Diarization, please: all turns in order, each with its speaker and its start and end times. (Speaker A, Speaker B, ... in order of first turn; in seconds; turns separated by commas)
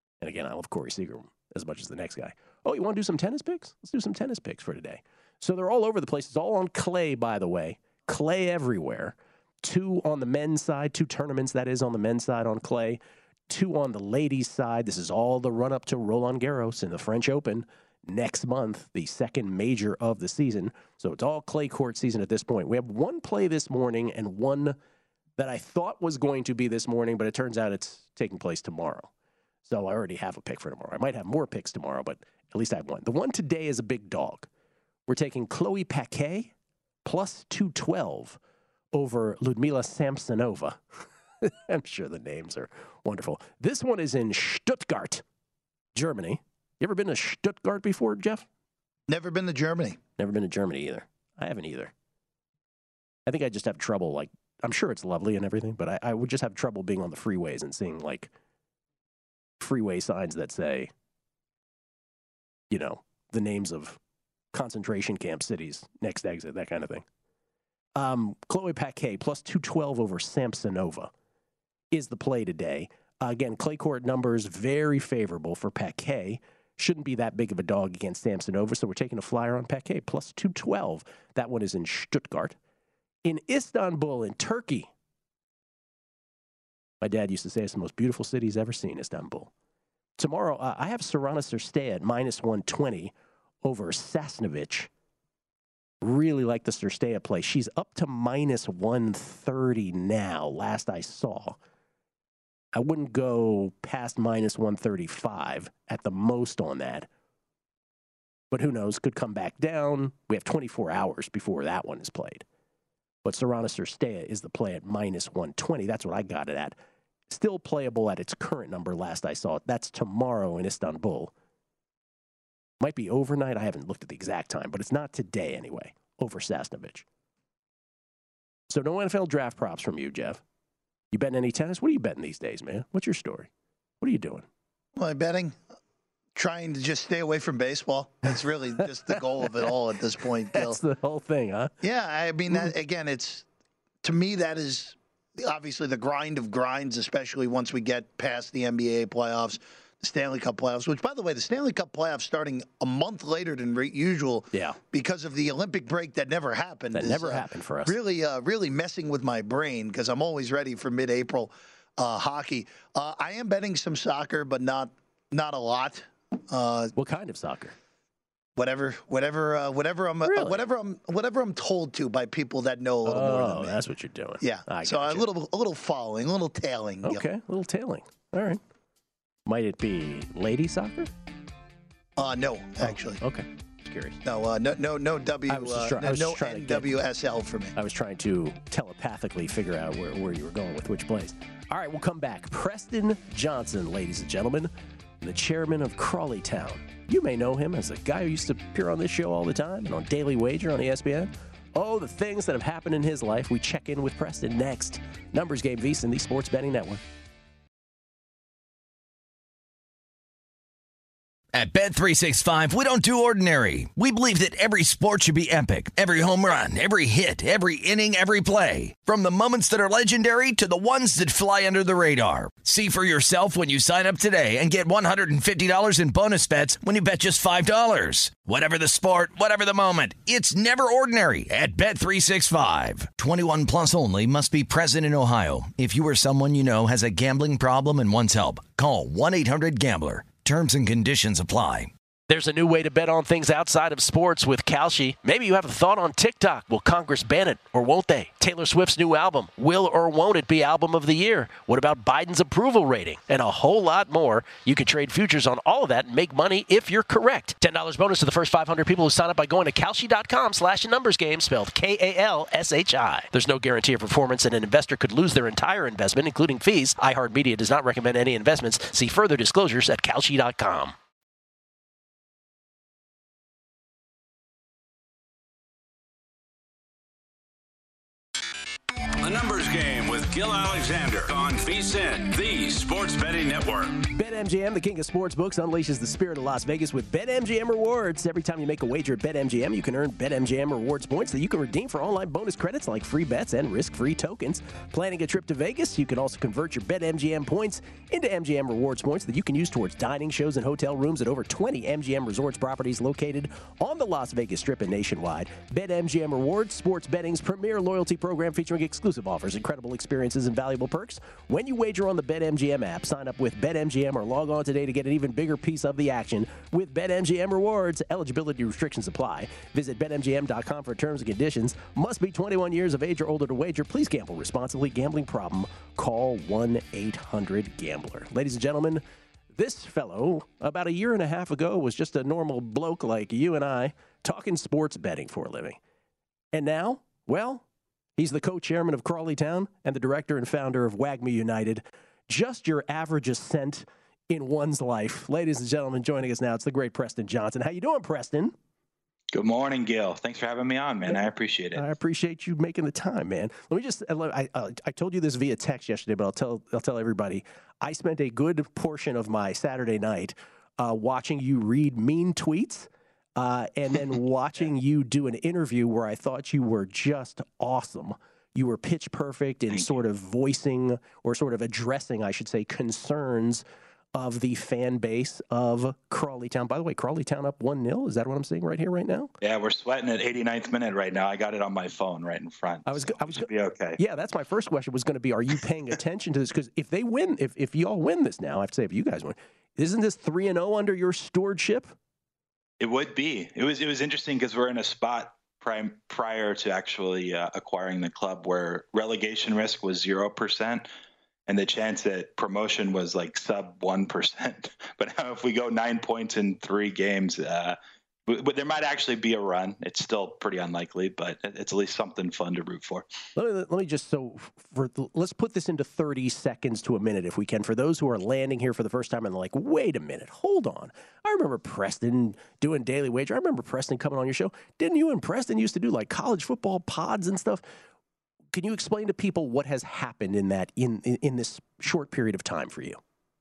Speaker A: 0.2-24.8, Speaker A: 25.4-29.1, Speaker A: 29.6-34.5, Speaker A: 35.1-36.5, Speaker A: 37.0-38.4, Speaker A: 38.9-40.8, Speaker A: 41.4-45.2, Speaker A: 45.9-48.5, Speaker B: 49.1-50.0, Speaker A: 50.2-51.9, Speaker A: 53.3-58.3, Speaker A: 59.6-60.9, Speaker A: 62.7-64.0, Speaker A: 64.5-67.0, Speaker A: 68.0-71.1, Speaker A: 71.9-82.5, Speaker A: 83.2-84.9, Speaker A: 87.0-89.5, Speaker A: 90.2-93.1, Speaker A: 93.6-94.9, Speaker A: 96.0-101.6, Speaker A: 102.7-107.1, Speaker A: 108.5-112.4, Speaker A: 113.2-116.8, Speaker A: 117.3-121.3, Speaker A: 122.8-127.0, Speaker A: 128.7-130.4, Speaker A: 131.1-133.5, Speaker A: 134.0-134.4, Speaker B: 134.9-135.6, Speaker B: 136.3-140.8, Speaker A: 138.8-139.7, Speaker A: 140.5-141.7, Speaker B: 141.8-143.4, Speaker B: 144.0-166.9, Speaker A: 154.5-154.8, Speaker A: 156.9-157.9, Speaker A: 166.9-167.7, Speaker B: 168.6-173.8, Speaker A: 170.2-170.6, Speaker A: 173.1-175.3, Speaker B: 174.4-177.2, Speaker A: 177.0-178.6, Speaker A: 179.4-181.1, Speaker B: 182.2-183.2, Speaker A: 182.8-184.2, Speaker B: 184.2-187.7, Speaker A: 185.5-186.9, Speaker A: 187.8-207.0, Speaker C: 211.5-241.9, Speaker A: 242.3-270.9, Speaker D: 279.2-284.0, Speaker A: 284.1-329.0, Speaker A: 329.5-335.8, Speaker A: 336.5-337.6, Speaker A: 338.2-348.5, Speaker E: 349.3-351.8, Speaker A: 351.0-373.6, Speaker A: 374.1-379.3, Speaker E: 379.4-384.0, Speaker A: 382.9-391.9, Speaker E: 392.8-400.9, Speaker E: 401.5-413.1, Speaker A: 413.4-427.6, Speaker A: 428.5-433.0